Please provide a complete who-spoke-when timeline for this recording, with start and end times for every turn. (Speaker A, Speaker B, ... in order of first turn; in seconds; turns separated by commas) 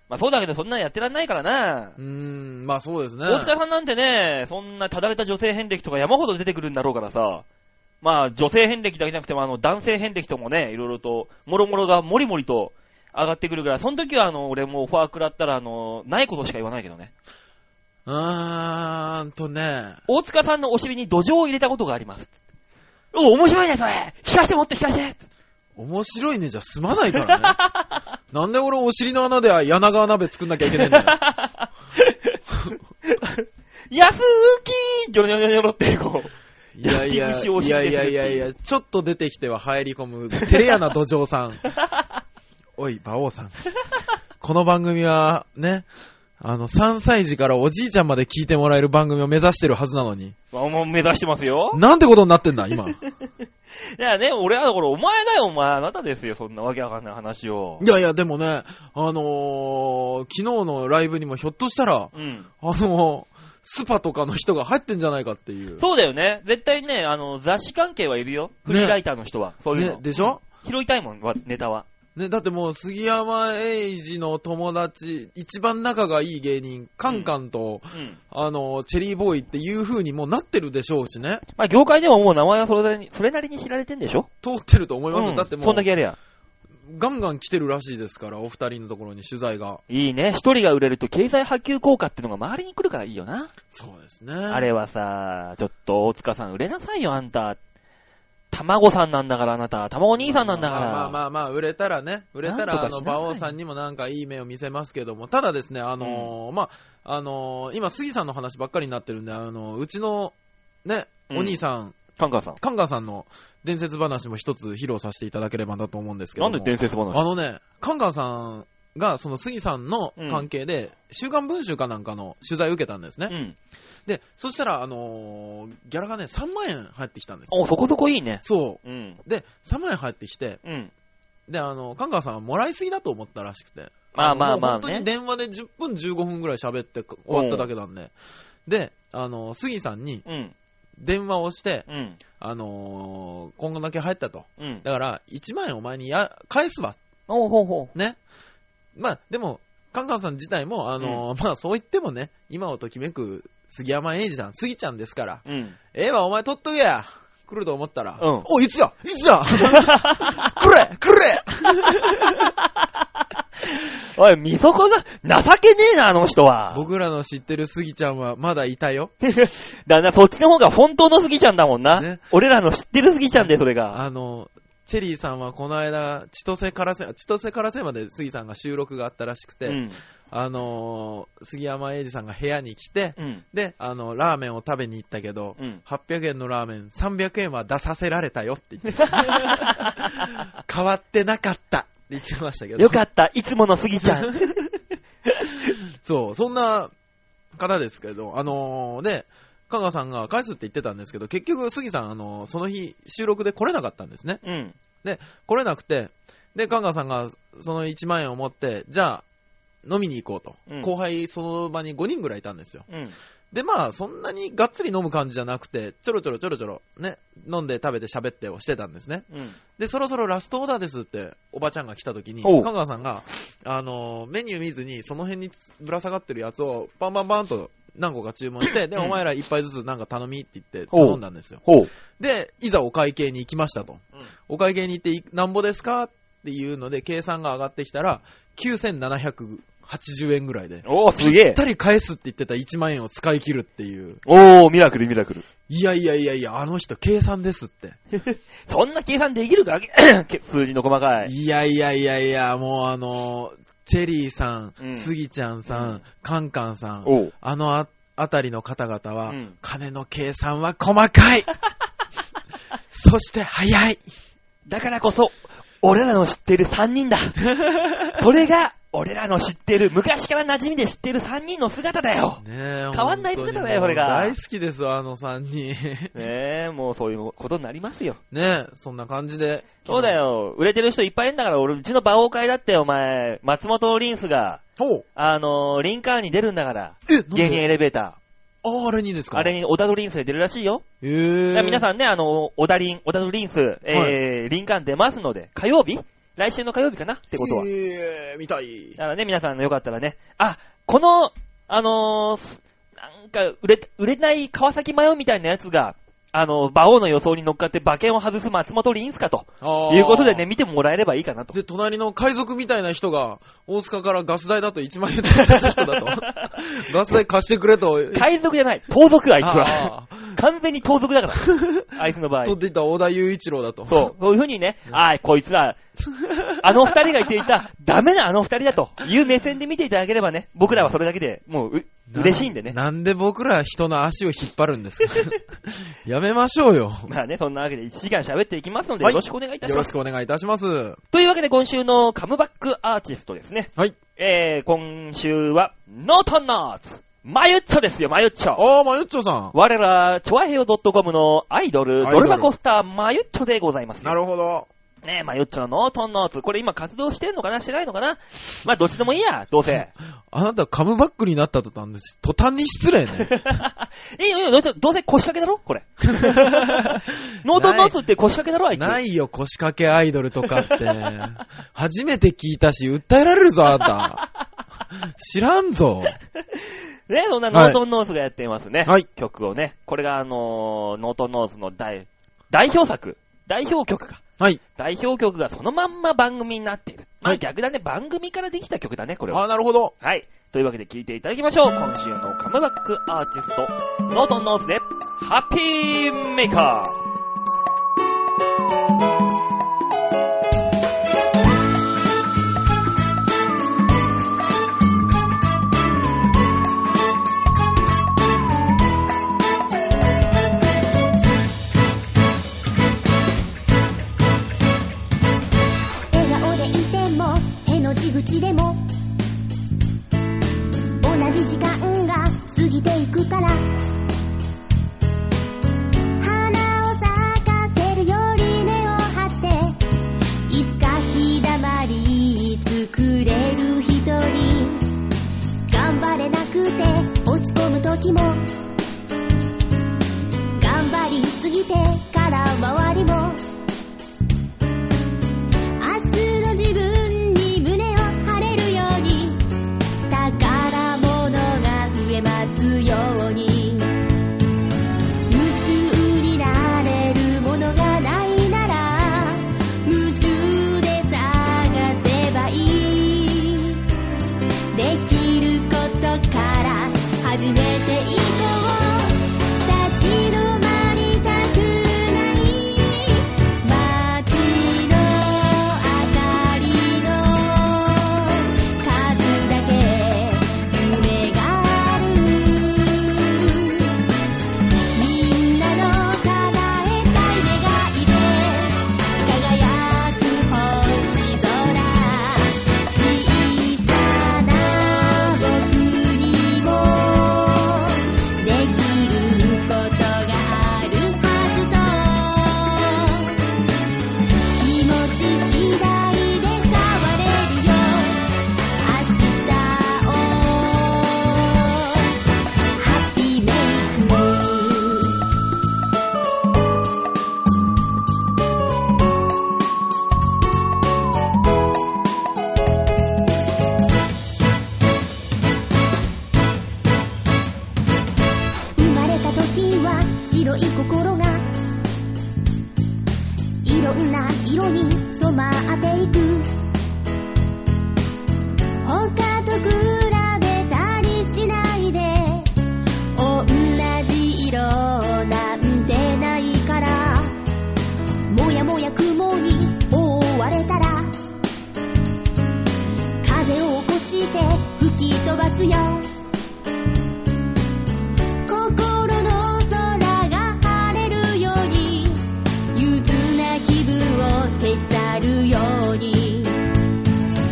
Speaker A: 0.1-2.0, Speaker B: 2.0-3.5, Speaker A: 3.3-7.4, Speaker A: 8.0-17.1, Speaker B: 18.1-20.0, Speaker A: 20.1-22.3, Speaker A: 23.1-25.2, Speaker B: 25.8-27.6, Speaker A: 27.1-28.0, Speaker B: 28.3-31.1, Speaker A: 30.8-32.4, Speaker A: 33.0-36.3, Speaker B: 36.7-41.6, Speaker A: 36.8-38.4, Speaker A: 40.4-40.7, Speaker B: 42.8-43.5, Speaker B: 44.4-45.9, Speaker B: 46.4-50.4, Speaker A: 50.5-51.8, Speaker B: 51.7-53.0, Speaker A: 53.8-57.8, Speaker B: 57.8-65.8, Speaker A: 62.1-62.5, Speaker A: 65.8-71.8, Speaker B: 68.7-69.0, Speaker B: 69.7-70.4, Speaker B: 72.2-81.4, Speaker A: 77.0-77.3, Speaker A: 81.6-84.3, Speaker B: 84.4-85.8, Speaker A: 85.1-86.2, Speaker B: 86.9-89.8, Speaker A: 89.9-93.5, Speaker B: 93.7-94.7, Speaker A: 94.5-97.6, Speaker A: 98.5-101.2, Speaker B: 100.2-112.0, Speaker A: 102.4-103.4, Speaker A: 106.0-106.3, Speaker A: 111.3-111.6, Speaker A: 112.2-112.6, Speaker B: 112.6-123.3, Speaker A: 116.4-117.2, Speaker A: 120.2-120.5, Speaker A: 123.3-123.5, Speaker B: 124.0-127.5, Speaker A: 127.5-129.2, Speaker B: 128.4-130.6, Speaker A: 130.6-130.9, Speaker B: 131.5-138.1, Speaker A: 134.1-135.1, Speaker A: 137.3-137.7, Speaker B: 138.7-140.2, Speaker A: 140.2-140.5, Speaker B: 141.0-141.8, Speaker A: 141.9-142.2, Speaker B: 142.4-147.0, Speaker A: 144.6-144.8, Speaker A: 147.3-147.9, Speaker B: 148.9-162.5, Speaker A: 151.0-151.2, Speaker A: 155.4-155.8, Speaker A: 158.2-158.5, Speaker A: 159.6-160.5, Speaker A: 161.9-162.6, Speaker A: 163.6-166.8, Speaker B: 166.7-169.1, Speaker A: 169.2-174.0, Speaker B: 171.9-172.2, Speaker B: 173.3-193.0, Speaker A: 179.7-180.0, Speaker A: 183.2-183.4, Speaker A: 188.9-190.1, Speaker A: 192.8-195.8, Speaker B: 194.0-194.5, Speaker B: 195.7-196.9, Speaker B: 197.5-204.4, Speaker A: 204.4-204.7, Speaker B: 205.0-209.2, Speaker B: 209.8-212.9, Speaker A: 210.7-210.9, Speaker A: 212.9-213.1, Speaker B: 213.5-231.6, Speaker A: 219.3-219.6, Speaker A: 222.4-222.7, Speaker A: 230.9-231.9, Speaker B: 232.2-244.2, Speaker A: 240.8-241.6, Speaker A: 244.2-245.4, Speaker B: 245.7-248.0, Speaker A: 248.1-251.3, Speaker B: 251.2-261.5, Speaker A: 254.8-255.1, Speaker A: 255.7-256.0, Speaker A: 257.0-257.3, Speaker A: 259.3-259.5, Speaker B: 262.9-264.0, Speaker A: 264.7-267.4, Speaker B: 267.4-268.2, Speaker A: 268.1-272.4, Speaker B: 272.4-276.1, Speaker A: 272.9-274.4, Speaker A: 276.1-278.2, Speaker B: 278.3-280.2, Speaker A: 279.8-284.6, Speaker B: 284.8-285.0, Speaker A: 285.1-288.2, Speaker B: 287.1-287.6, Speaker B: 288.6-289.6, Speaker A: 289.3-290.8, Speaker B: 291.0-291.9, Speaker A: 291.5-297.7, Speaker B: 293.9-294.1, Speaker B: 297.3-299.0, Speaker A: 299.0-311.6, Speaker B: 309.6-310.4, Speaker B: 311.5-318.3, Speaker A: 315.3-316.5, Speaker A: 318.1-322.6, Speaker B: 319.4-320.4, Speaker B: 321.3-321.9, Speaker B: 322.4-324.1, Speaker A: 323.9-325.8, Speaker B: 326.1-327.1, Speaker A: 326.6-332.8, Speaker B: 332.1-337.1, Speaker A: 337.1-339.9, Speaker B: 339.0-341.0, Speaker A: 341.1-348.6, Speaker B: 348.6-349.5, Speaker A: 349.5-354.1, Speaker B: 352.0-352.5, Speaker B: 354.0-354.7, Speaker A: 355.0-359.9, Speaker B: 359.7-363.4, Speaker A: 363.2-369.0, Speaker B: 366.1-367.9, Speaker B: 368.7-374.2, Speaker A: 370.5-371.1, Speaker A: 373.8-374.2, Speaker B: 375.0-376.2, Speaker A: 376.6-384.2, Speaker B: 377.5-377.8, Speaker A: 384.8-389.4, Speaker B: 389.3-389.9, Speaker A: 390.0-397.0, Speaker C: 416.1-418.8, Speaker C: 421.0-423.6, Speaker C: 426.2-429.8, Speaker C: 430.5-434.9, Speaker C: 435.7-438.4, Speaker C: 440.6-443.4, Speaker C: 445.8-449.4, Speaker C: 450.1-453.9, Speaker C: 455.3-463.8, Speaker C: 464.7-483.9, Speaker C: 484.9-503.3, Speaker C: 504.5-508.2, Speaker C: 508.8-512.1, Speaker C: 512.8-515.2, Speaker C: 528.8-531.5, Speaker C: 533.6-536.5, Speaker C: 538.8-542.5, Speaker C: 543.1-547.4, Speaker C: 548.3-551.1, Speaker C: 553.2-556.1, Speaker C: 558.5-566.6